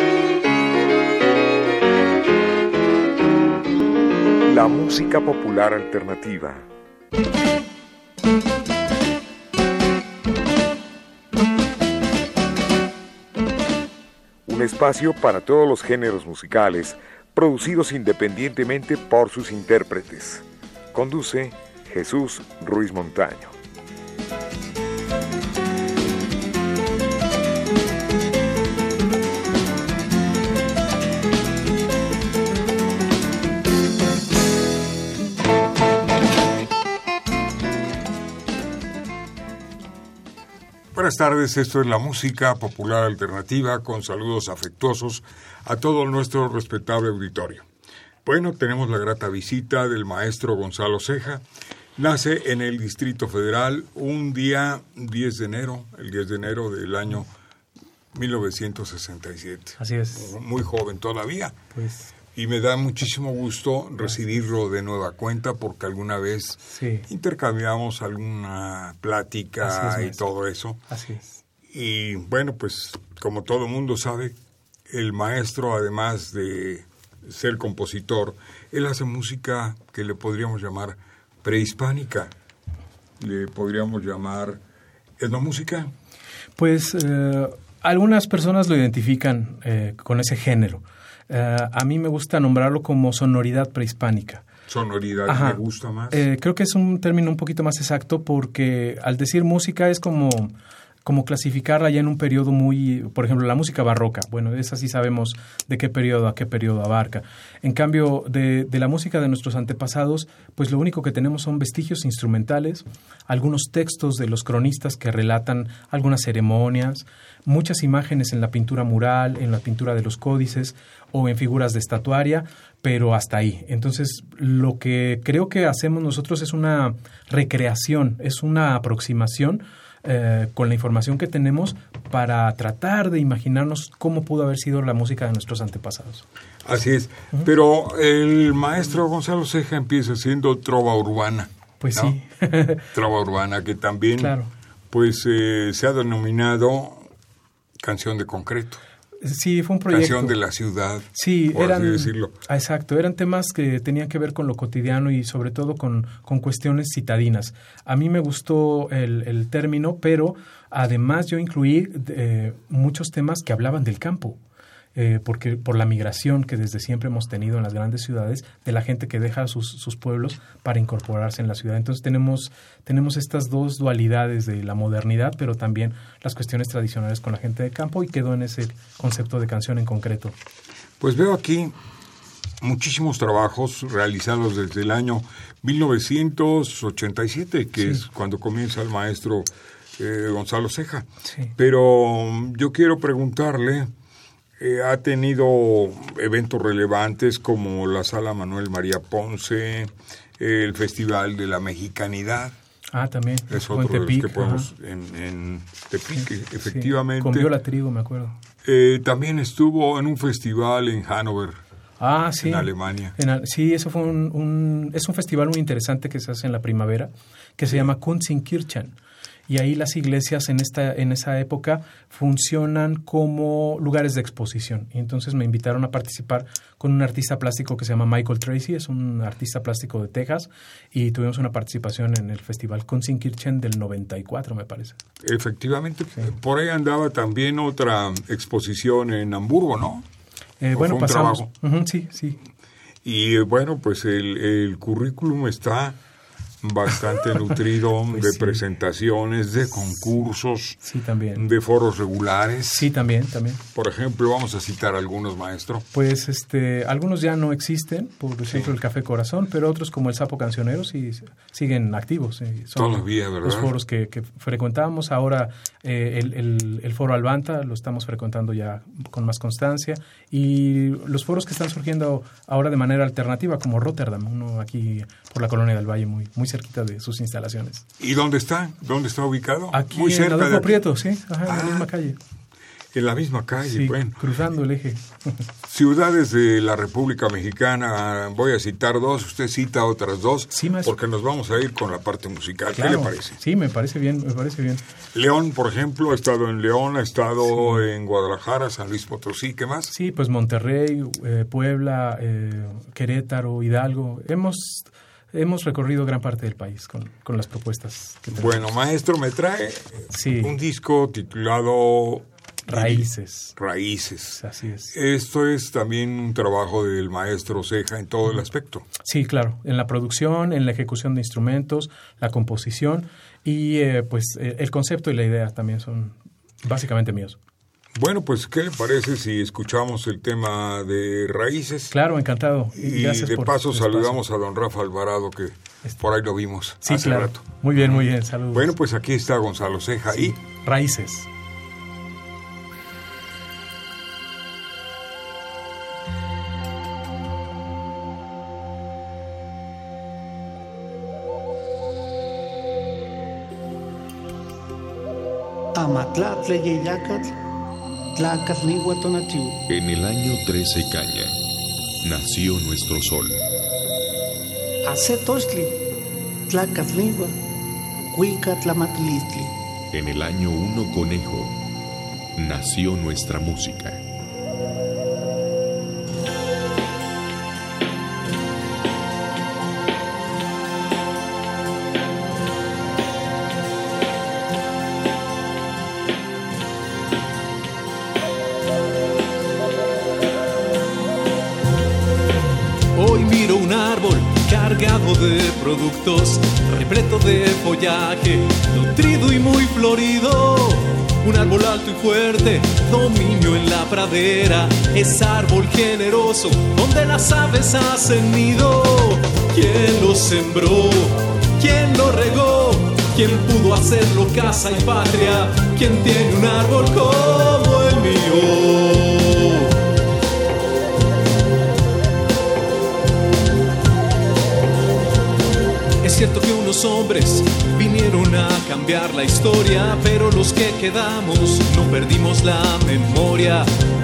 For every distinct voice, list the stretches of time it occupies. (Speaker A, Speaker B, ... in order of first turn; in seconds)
Speaker A: 4.5-6.7, 14.4-23.6
Speaker B: 40.9-47.6, 48.2-51.4, 52.0-57.3, 58.1-61.5, 62.3-70.8, 71.7-74.3, 74.9-82.3, 83.2-84.6, 85.2-85.9, 94.7-96.2, 136.6-142.2, 142.9-144.3, 144.9-147.1, 147.8-148.8, 149.9-152.3, 181.0-181.7, 182.6-193.9, 194.6-202.5, 203.5-207.5, 208.6-211.6, 212.4-213.1, 235.2-240.1, 240.7-241.5, 243.0-246.0, 246.6-250.8, 251.3-252.9, 253.7-255.8, 258.4-258.7, 262.8-263.7, 278.0-280.9, 281.4-281.9, 282.9-284.2, 285.7-293.4, 295.1-299.9, 308.3-318.9, 327.9-331.9, 332.7-340.4
Speaker C: 59.8-60.3, 61.7-62.1, 66.7-67.1, 69.6-70.2, 70.9-71.4, 86.6-94.5, 95.3-95.6, 96.1-100.5, 101.0-136.2, 141.8-142.8, 144.2-144.5, 149.2-150.4, 151.1-164.4, 164.9-180.3, 202.9-204.7, 206.2-208.4, 212.0-218.9, 219.5-235.0, 240.6-242.4, 248.1-248.6, 250.8-251.4, 252.7-253.6, 255.9-277.8, 279.7-282.2, 283.6-285.4, 290.5-290.9, 292.8-294.8, 297.5-297.8, 299.9-308.7, 310.1-310.6, 312.7-313.6, 314.4-314.9, 319.0-327.4, 331.9-334.2, 336.8-338.7, 340.1-341.3
Speaker D: 355.7-357.4, 358.1-359.6, 364.8-365.8, 366.5-367.4, 368.1-369.5
Speaker E: 359.7-361.4, 362.0-363.4, 369.9-371.6, 372.4-374.0
Speaker F: 392.9-419.7, 426.0-433.7